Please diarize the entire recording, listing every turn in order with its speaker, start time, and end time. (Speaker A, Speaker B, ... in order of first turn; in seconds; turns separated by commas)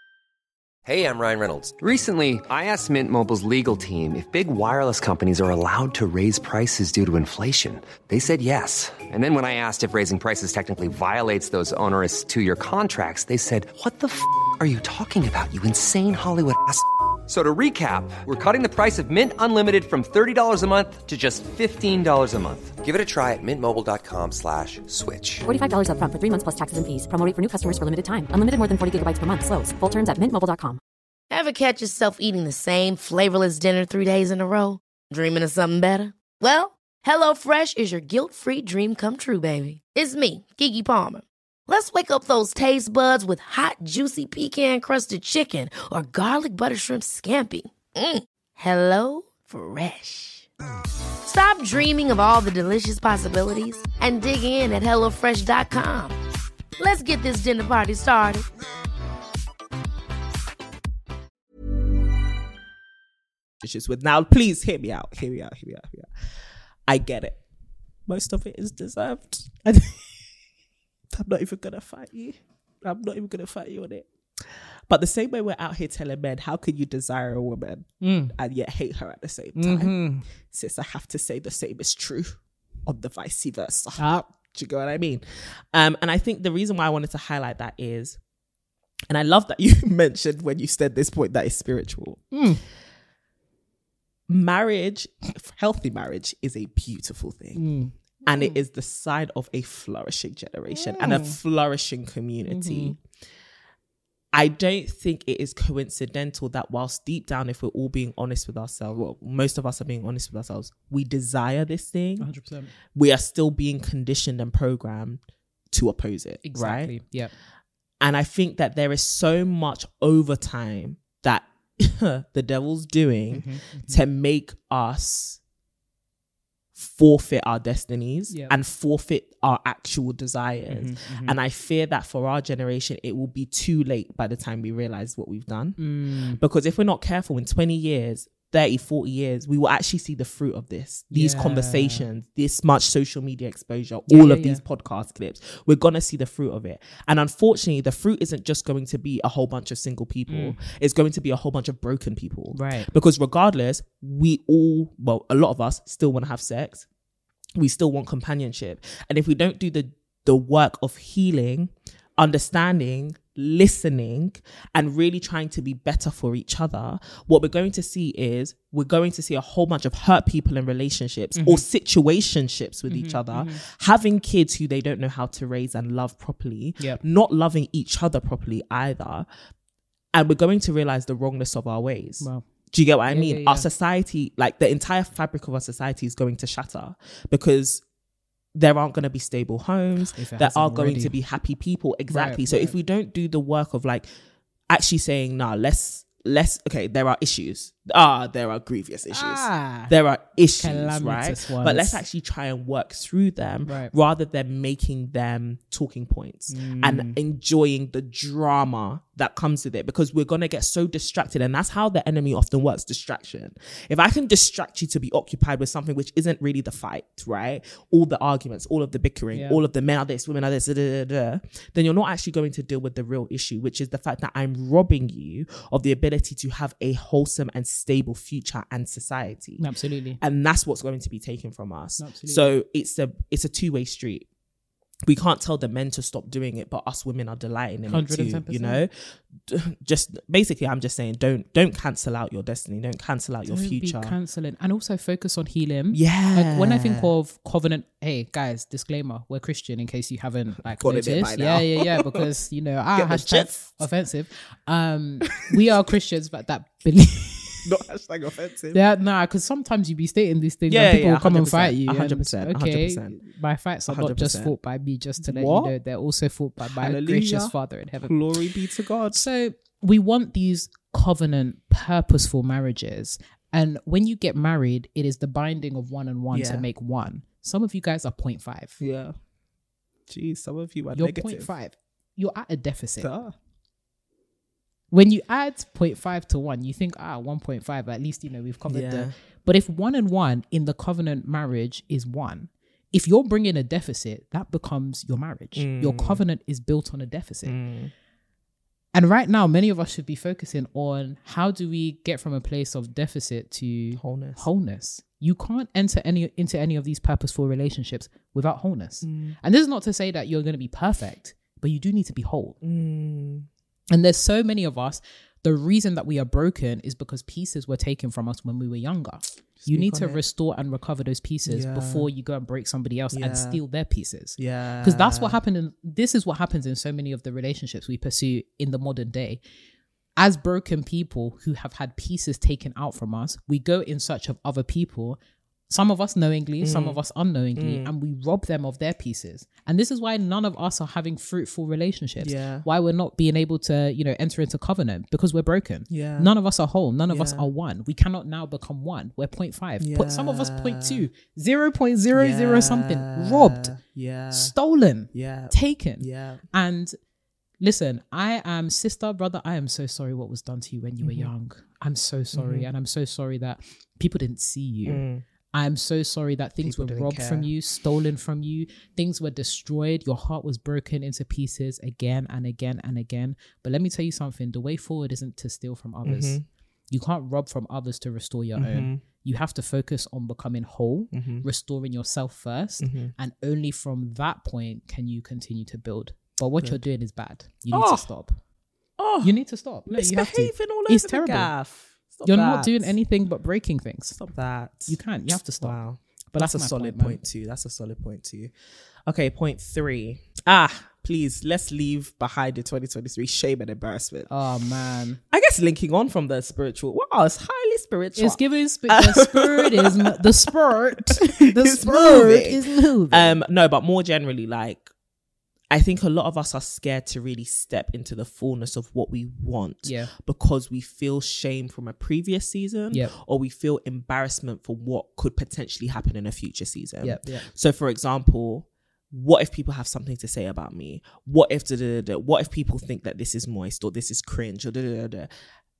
Speaker A: 0.8-25.4, Speaker B: 25.4-30.8, Speaker C: 31.3-50.5, Speaker C: 51.2-56.2, Speaker C: 56.8-58.5, Speaker D: 63.6-66.1, Speaker D: 66.9-67.4, Speaker D: 68.1-69.5, Speaker E: 69.6-70.0, Speaker D: 71.1-88.2, Speaker E: 78.0-78.3, Speaker E: 79.5-80.2, Speaker E: 84.0-84.3, Speaker D: 89.1-92.3, Speaker E: 92.3-92.6, Speaker D: 94.3-97.7, Speaker E: 97.5-98.6, Speaker D: 98.2-103.0, Speaker E: 100.7-101.4, Speaker E: 102.5-103.0, Speaker D: 104.3-112.3, Speaker E: 112.2-112.7, Speaker D: 112.9-117.0, Speaker E: 116.4-117.3, Speaker D: 118.0-125.4, Speaker E: 123.3-124.0, Speaker D: 126.7-135.8, Speaker E: 128.3-128.5, Speaker E: 130.7-131.4, Speaker E: 135.8-136.4, Speaker D: 136.3-156.9, Speaker E: 141.1-142.0, Speaker E: 144.1-144.6, Speaker E: 150.3-150.6, Speaker E: 152.5-152.9, Speaker D: 157.6-179.3, Speaker E: 171.3-171.6, Speaker E: 172.9-173.6, Speaker D: 180.1-187.8, Speaker E: 183.1-183.7, Speaker D: 188.5-194.1, Speaker E: 190.0-191.2, Speaker E: 192.1-192.7, Speaker D: 194.7-229.7, Speaker E: 199.1-199.9, Speaker E: 200.6-202.0, Speaker E: 203.6-203.9, Speaker E: 206.5-207.2, Speaker E: 219.3-219.6, Speaker E: 229.6-230.2, Speaker D: 230.2-234.3, Speaker E: 232.0-232.6, Speaker D: 235.0-244.2, Speaker E: 237.9-238.8, Speaker E: 243.5-257.7, Speaker D: 245.9-247.1, Speaker D: 250.8-252.3, Speaker D: 252.9-253.7, Speaker D: 257.6-258.8, Speaker E: 258.7-268.1, Speaker D: 260.7-263.2, Speaker D: 263.9-264.6, Speaker D: 265.2-265.8, Speaker D: 266.6-269.2, Speaker E: 269.1-278.8, Speaker D: 276.3-276.6, Speaker D: 278.8-279.2, Speaker D: 280.1-281.5, Speaker E: 280.9-283.1, Speaker D: 283.0-283.3, Speaker E: 284.9-297.6, Speaker D: 288.7-289.1, Speaker D: 295.6-296.2, Speaker D: 297.4-297.9, Speaker E: 298.9-312.6, Speaker D: 303.9-304.4, Speaker D: 309.0-309.4, Speaker D: 312.6-313.5, Speaker E: 313.9-329.4, Speaker D: 319.6-320.2, Speaker D: 321.5-322.1, Speaker D: 323.1-323.6, Speaker D: 324.4-325.4, Speaker E: 330.2-335.2, Speaker E: 335.7-353.8, Speaker D: 336.6-337.0, Speaker D: 337.6-337.9, Speaker D: 342.2-342.6, Speaker D: 345.9-346.3, Speaker D: 347.1-347.5, Speaker D: 349.8-351.1, Speaker D: 352.1-354.5, Speaker E: 354.3-357.0, Speaker D: 355.1-356.4, Speaker E: 357.6-388.4, Speaker D: 361.0-361.3, Speaker D: 362.3-362.7, Speaker D: 364.9-365.2, Speaker D: 366.6-367.5, Speaker D: 376.0-376.4, Speaker D: 378.6-379.0, Speaker D: 381.1-381.4, Speaker D: 382.8-383.1, Speaker D: 387.7-388.1, Speaker D: 389.0-392.9, Speaker E: 389.2-391.5, Speaker E: 392.2-394.2, Speaker D: 394.1-394.9, Speaker E: 394.9-395.8, Speaker D: 395.6-398.5, Speaker E: 396.3-397.2, Speaker D: 399.1-404.3, Speaker E: 404.3-405.2, Speaker D: 405.3-410.3, Speaker E: 408.1-413.4, Speaker D: 411.0-414.9, Speaker D: 415.7-435.3, Speaker E: 419.8-420.1, Speaker E: 427.0-427.5